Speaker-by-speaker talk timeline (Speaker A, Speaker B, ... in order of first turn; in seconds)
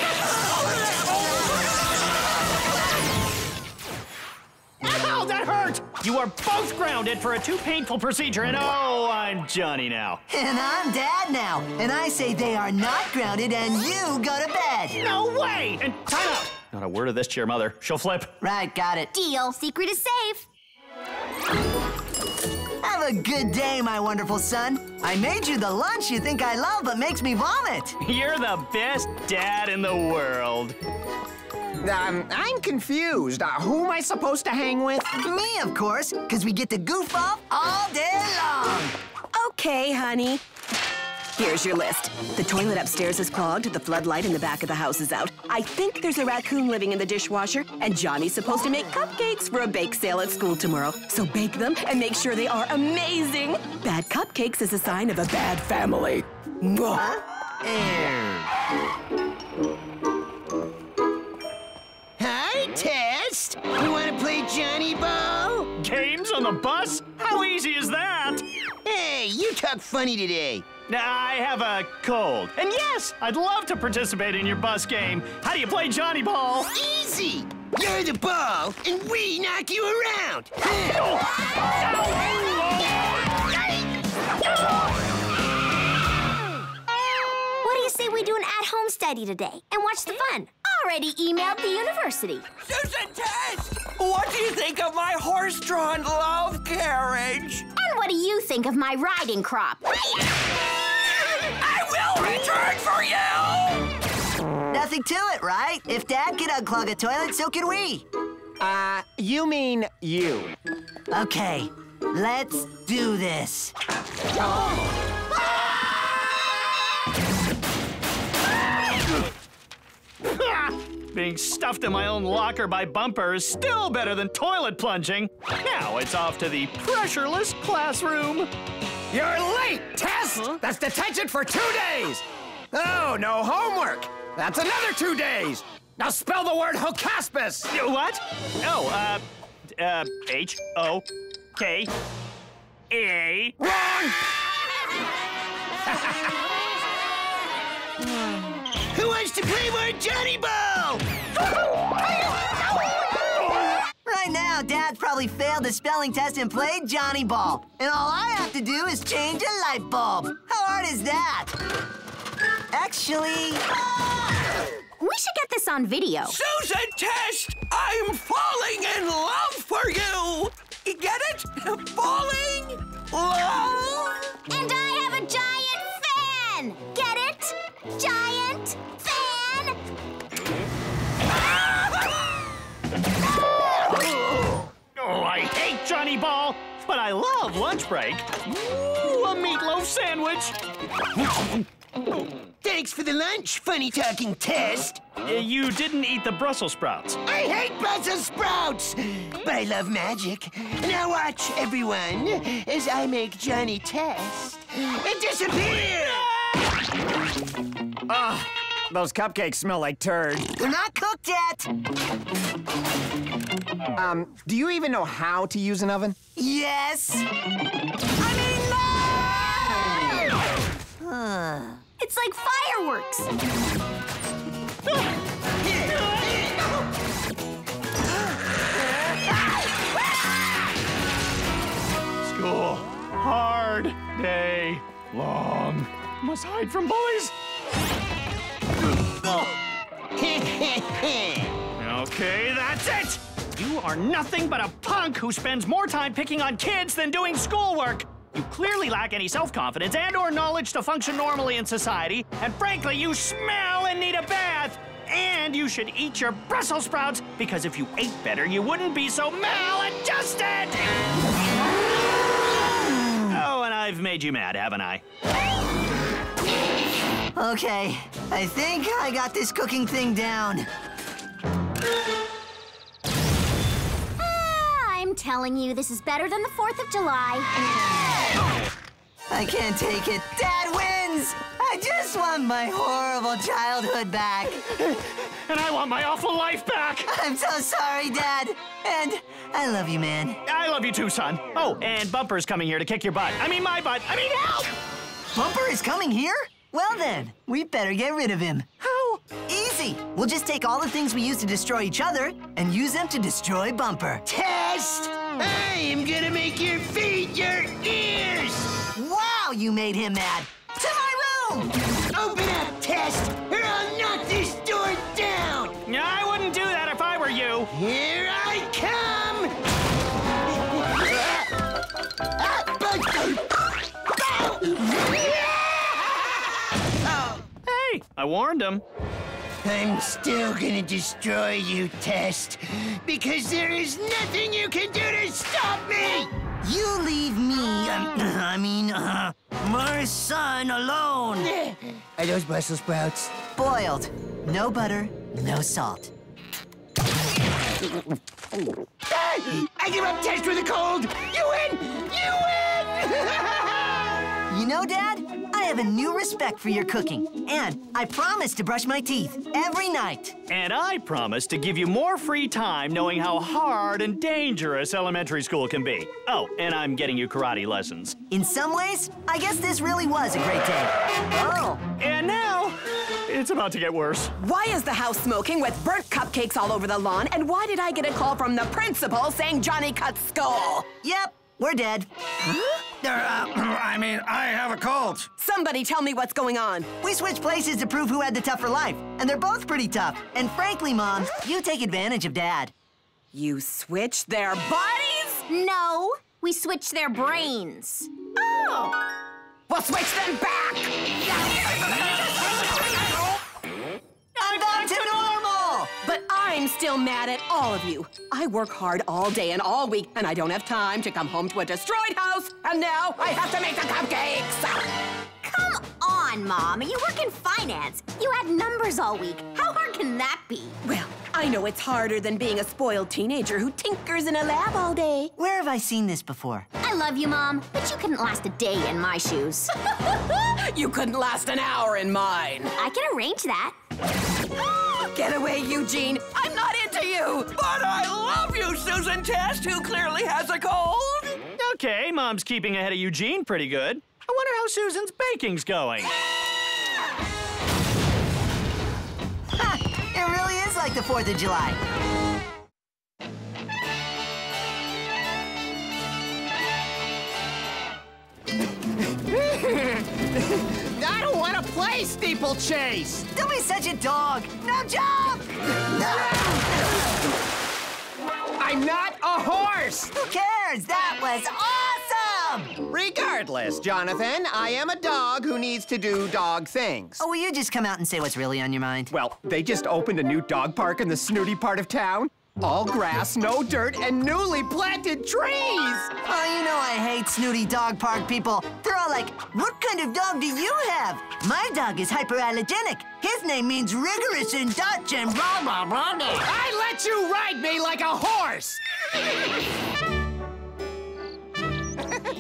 Speaker A: 4.8-10.2, 15.0-18.3, 28.0-30.8, 65.8-68.4, 70.9-76.7, 81.0-81.2, 81.8-82.8, 120.3-128.5, 137.7-139.2, 139.7-141.1, 141.6-141.9, 142.9-143.6, 185.0-190.6, 195.2-197.2, 232.2-237.3, 239.2-239.5, 241.8-260.9, 263.3-265.0, 284.9-287.1, 290.5-294.7, 315.9-317.7, 327.7-328.8, 360.5-368.2, 372.0-374.3, 404.4-405.0, 441.6-446.1
Speaker B: 10.3-15.0, 18.4-19.1, 22.8-28.0, 35.2-39.0, 56.9-57.2, 104.7-108.1, 111.1-113.7, 154.1-161.6, 162.7-163.6, 210.6-211.7, 216.4-217.3, 218.2-219.3, 221.0-221.8, 267.4-270.7, 279.3-284.6, 287.1-290.4, 295.3-304.2, 308.9-311.7, 336.6-337.8, 343.6-346.1, 354.5-360.4, 368.3-371.8, 381.0-382.1, 387.0-392.7, 404.4-405.9, 425.4-426.7, 449.6-451.8, 463.3-466.9, 470.1-472.8, 477.2-479.1, 486.2-496.2
Speaker C: 19.1-20.5, 87.6-92.5, 97.8-100.2, 165.0-166.4, 174.5-179.8, 222.0-223.3, 274.2-277.5, 395.5-398.1, 415.4-420.8, 426.8-429.7, 432.8-433.8
Speaker D: 31.8-35.1, 108.6-110.5, 129.1-132.2, 132.7-137.7, 143.7-144.1, 208.1-210.5, 214.0-216.2, 240.2-241.5, 399.7-400.9, 459.3-460.0, 460.6-463.3, 468.6-470.1, 472.9-477.2, 479.1-486.1, 496.3-498.8
Speaker E: 39.3-40.4, 41.4-56.8, 374.4-380.9, 385.4-386.9, 393.3-395.4, 398.4-398.9, 406.0-414.8, 420.9-425.3, 430.1-432.7, 434.6-437.5
Speaker F: 57.7-58.3, 62.2-65.7, 68.8-70.7, 76.7-81.0, 148.9-151.0, 192.6-195.0, 197.3-206.3, 226.2-226.5, 304.2-308.7, 312.1-315.8, 317.7-319.5, 322.4-323.4, 324.1-326.0, 329.6-336.3, 337.6-343.3, 349.1-354.0, 383.0-385.2
Speaker G: 92.7-97.7, 101.0-103.9, 166.3-174.2, 437.5-441.4